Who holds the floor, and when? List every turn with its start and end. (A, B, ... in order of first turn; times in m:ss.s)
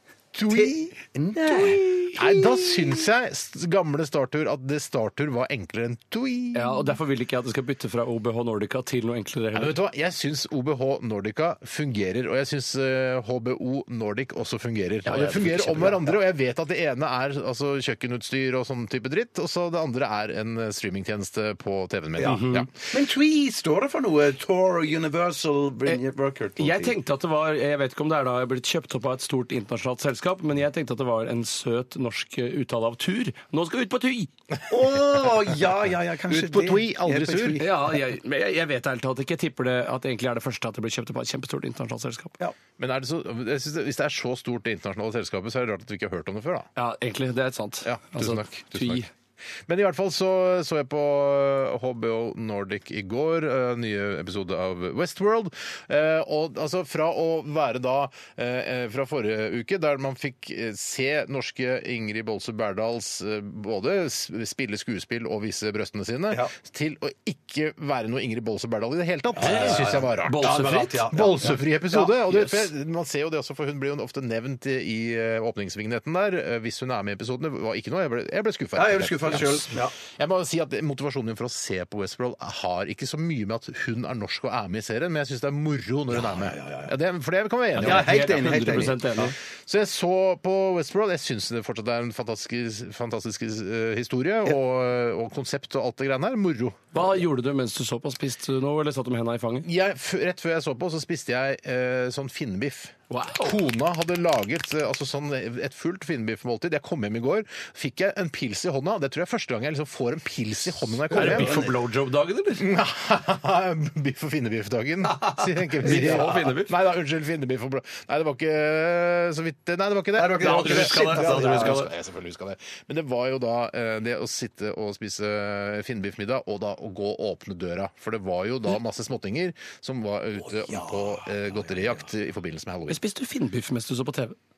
0:00.3-0:00.8 A
0:00.5-0:03.0 B
0:01.5-0:02.2 C
0:02.2-0:06.8 A
0:06.5-0:09.8 C
0:09.5-0:22.9 A
0:15.1-0:16.2 C
0:22.2-0:27.0 B
0:22.2-0:22.7 C
0:26.6-0:34.3 C
0:34.7-0:37.7 B
0:36.3-0:37.7 A
0:37.6-0:42.3 C
0:42.8-0:46.7 A
0:46.8-0:49.1 C
0:47.8-0:49.0 A
0:49.7-1:28.9 A
1:09.4-1:12.2 B
1:09.4-1:11.3 C
1:18.8-1:19.9 B
1:26.1-1:26.9 B
1:27.8-1:29.4 C
1:27.8-1:29.3 B
1:29.6-1:37.1 A
1:36.9-1:39.7 C
1:39.6-1:51.6 A
1:43.1-1:43.6 C
1:51.1-1:52.7 C
1:51.1-1:51.7 B
1:52.6-2:13.0 A
1:55.7-1:56.7 C
1:55.9-1:56.3 B
2:00.2-2:01.8 B
2:00.4-2:01.9 C
2:10.7-2:11.1 B
2:12.9-2:14.4 C